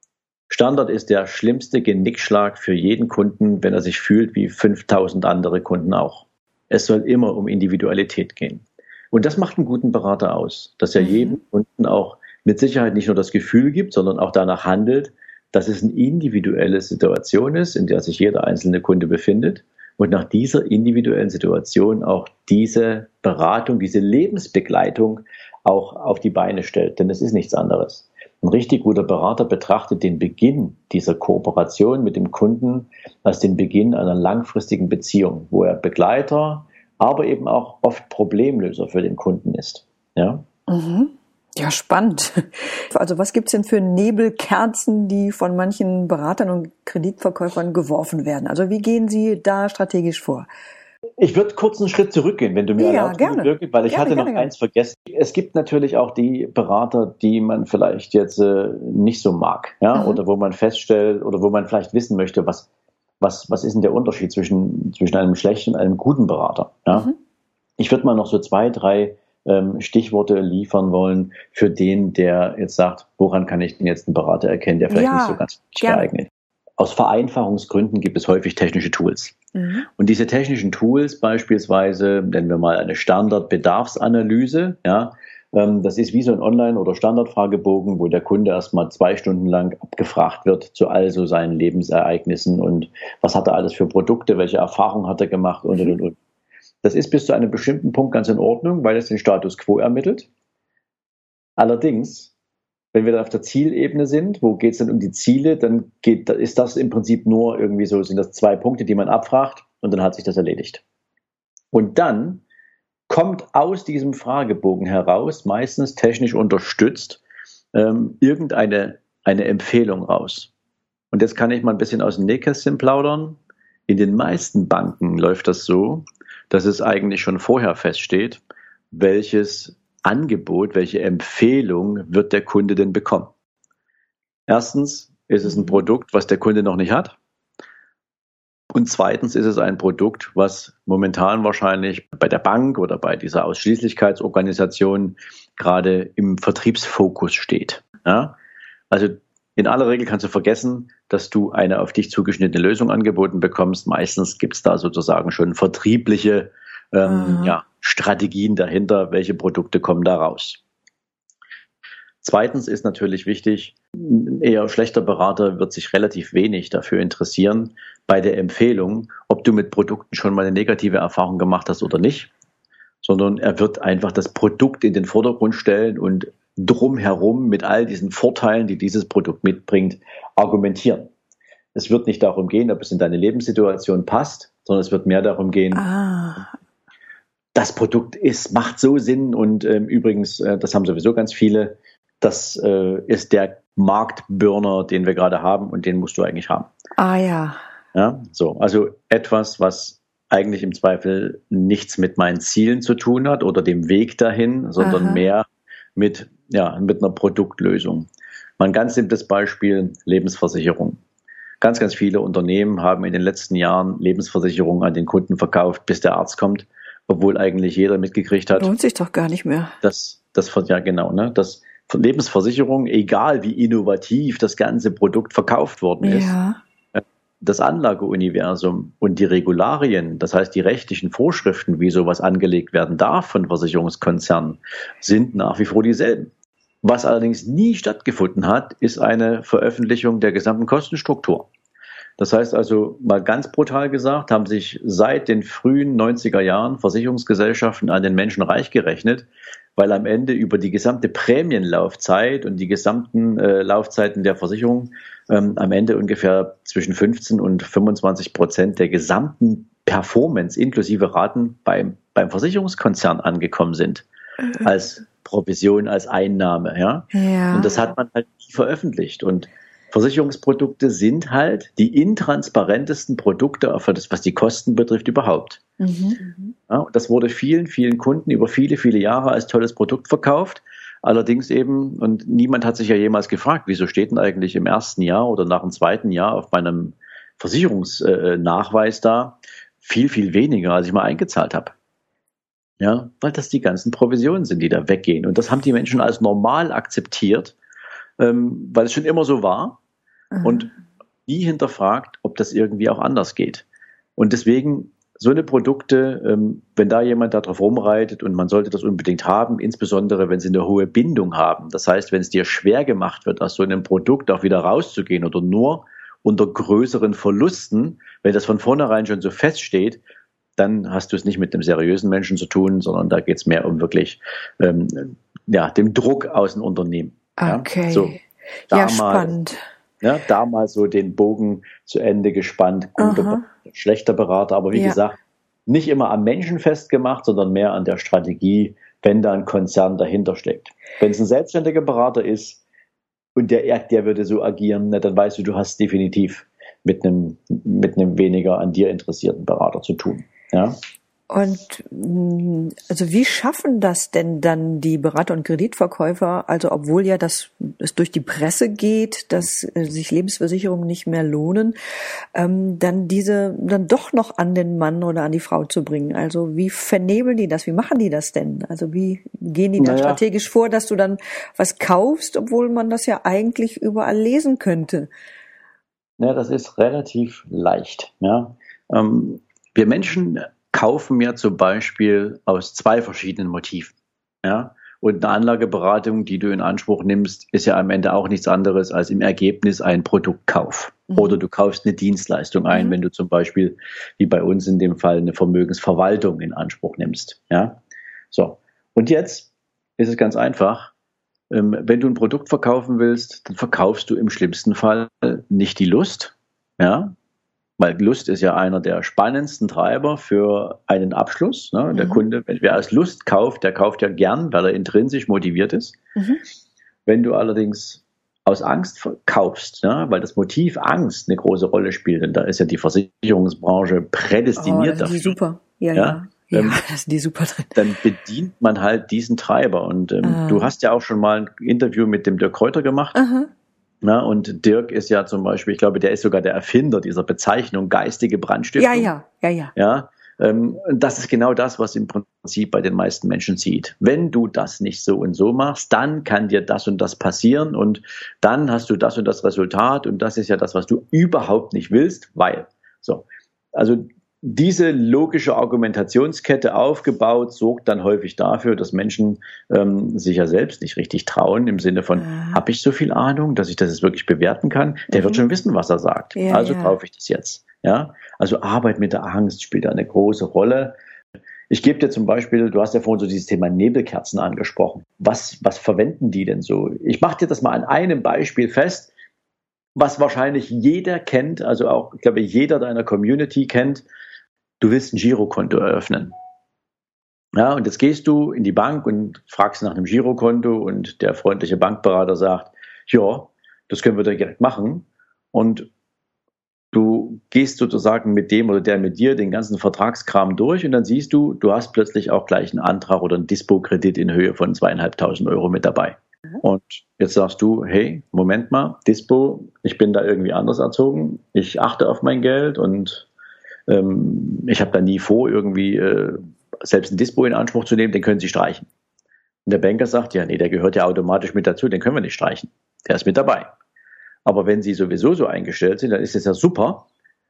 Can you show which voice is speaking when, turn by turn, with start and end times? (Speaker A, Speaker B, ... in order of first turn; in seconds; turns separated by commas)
Speaker A: 0.5-40.4, Speaker B: 11.0-11.4, Speaker B: 40.7-50.5, Speaker A: 51.2-62.7, Speaker B: 52.8-54.5, Speaker B: 59.9-60.2, Speaker A: 63.2-67.1, Speaker A: 67.8-79.3, Speaker B: 74.9-76.0, Speaker B: 79.5-79.9, Speaker A: 80.0-96.2, Speaker A: 96.8-100.3, Speaker A: 101.6-102.3, Speaker A: 102.9-110.8, Speaker A: 111.7-112.4, Speaker A: 113.1-117.2, Speaker A: 117.7-120.5, Speaker A: 121.1-133.3, Speaker A: 134.5-137.2, Speaker B: 135.5-135.8, Speaker A: 138.7-148.3, Speaker A: 148.9-160.6, Speaker B: 157.0-157.6, Speaker A: 162.2-172.3, Speaker A: 173.0-181.1, Speaker A: 181.7-185.8, Speaker B: 185.7-186.5, Speaker A: 187.5-196.7, Speaker B: 197.0-197.6, Speaker A: 197.9-205.4, Speaker B: 204.8-205.2, Speaker A: 205.9-211.0, Speaker A: 211.6-218.7, Speaker B: 218.5-219.7, Speaker A: 219.8-226.3, Speaker B: 226.0-226.6, Speaker A: 226.9-236.3, Speaker A: 236.8-241.5, Speaker A: 242.2-264.1, Speaker B: 264.4-264.7, Speaker A: 264.6-275.6, Speaker B: 267.1-267.8, Speaker B: 275.8-276.3, Speaker A: 276.7-291.7, Speaker A: 292.8-297.6, Speaker A: 298.2-299.8, Speaker B: 300.3-300.6, Speaker A: 300.4-300.7, Speaker A: 301.3-303.6, Speaker A: 304.2-320.0, Speaker A: 320.6-328.2, Speaker B: 327.4-329.6, Speaker A: 328.7-329.3, Speaker A: 330.0-342.6, Speaker B: 333.0-333.4, Speaker B: 334.7-335.0, Speaker A: 343.4-350.8, Speaker B: 351.3-361.7, Speaker B: 362.3-375.1, Speaker A: 369.8-370.2, Speaker A: 376.2-397.8, Speaker B: 392.7-392.9, Speaker A: 398.3-400.9, Speaker A: 401.5-407.1, Speaker A: 407.8-416.0, Speaker B: 411.9-412.2, Speaker B: 416.1-416.4, Speaker A: 417.1-425.4, Speaker B: 424.6-427.9, Speaker A: 425.9-426.8, Speaker A: 427.7-433.2, Speaker B: 430.2-430.7, Speaker B: 433.1-433.5, Speaker A: 434.0-439.1, Speaker B: 438.8-439.7, Speaker A: 439.8-470.9, Speaker B: 462.2-462.6, Speaker B: 465.1-465.4, Speaker B: 466.3-467.0, Speaker A: 471.7-479.1, Speaker A: 479.9-484.0, Speaker A: 484.8-486.3, Speaker A: 487.5-495.9, Speaker A: 496.9-513.3, Speaker A: 513.9-518.9, Speaker A: 519.6-523.7, Speaker A: 524.4-527.1